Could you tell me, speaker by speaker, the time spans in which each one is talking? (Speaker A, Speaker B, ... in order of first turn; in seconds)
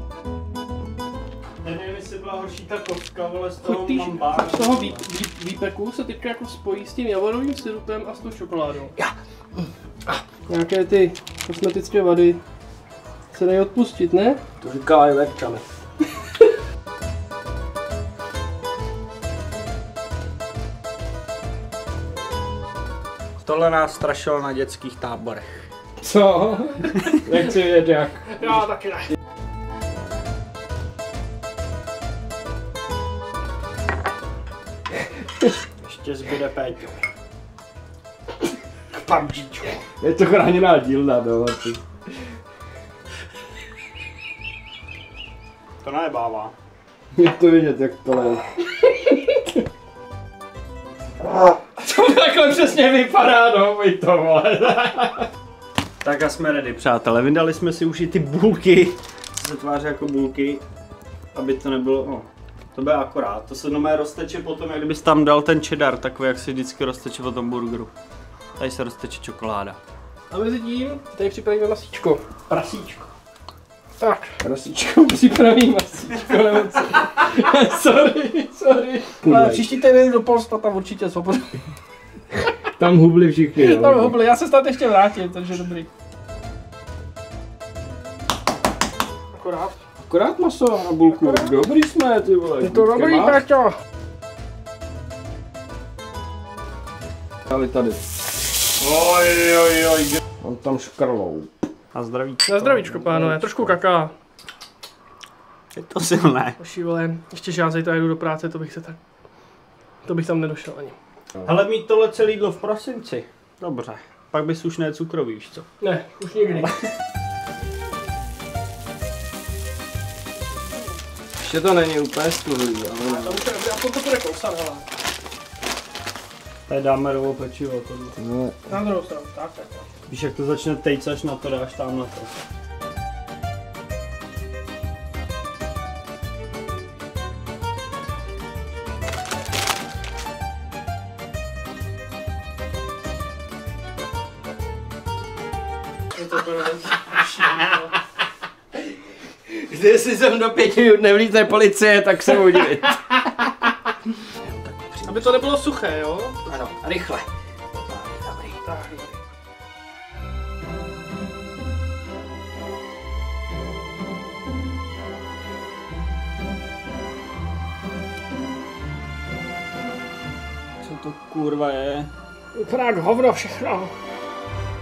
Speaker A: 1.6-5.0, 23.4-25.5, 35.8-37.0, 38.9-39.8, 45.8-46.5, 56.0-60.6, 61.3-67.9, 68.6-69.8, 72.5-73.1, 98.9-99.8, 101.9-103.4, 105.7-106.6, 111.4-115.7, 126.7-128.2, 130.1-132.3, 170.8-172.1
Speaker B: 3.6-8.9, 10.5-12.4, 13.3-14.4, 28.4-29.1, 70.3-72.2, 74.0-74.3, 79.2-81.6, 83.6-85.9, 89.3-89.8, 91.1-91.5, 92.6-93.8, 102.5-104.1, 106.6-109.0, 110.0-111.0, 115.8-116.7, 123.0-124.8, 128.7-129.8, 146.2-147.9, 155.1-156.6, 158.6-159.2, 172.6-173.9
Speaker C: 9.0-9.7, 14.6-15.6, 26.0-28.6, 40.0-41.8, 47.2-48.4, 51.8-55.3, 74.4-79.7, 82.8-84.2, 90.0-93.4, 97.5-98.0, 100.4-101.6, 121.4-123.4, 128.2-128.7, 149.5-153.2, 154.5-155.3, 156.5-157.3, 158.1-158.6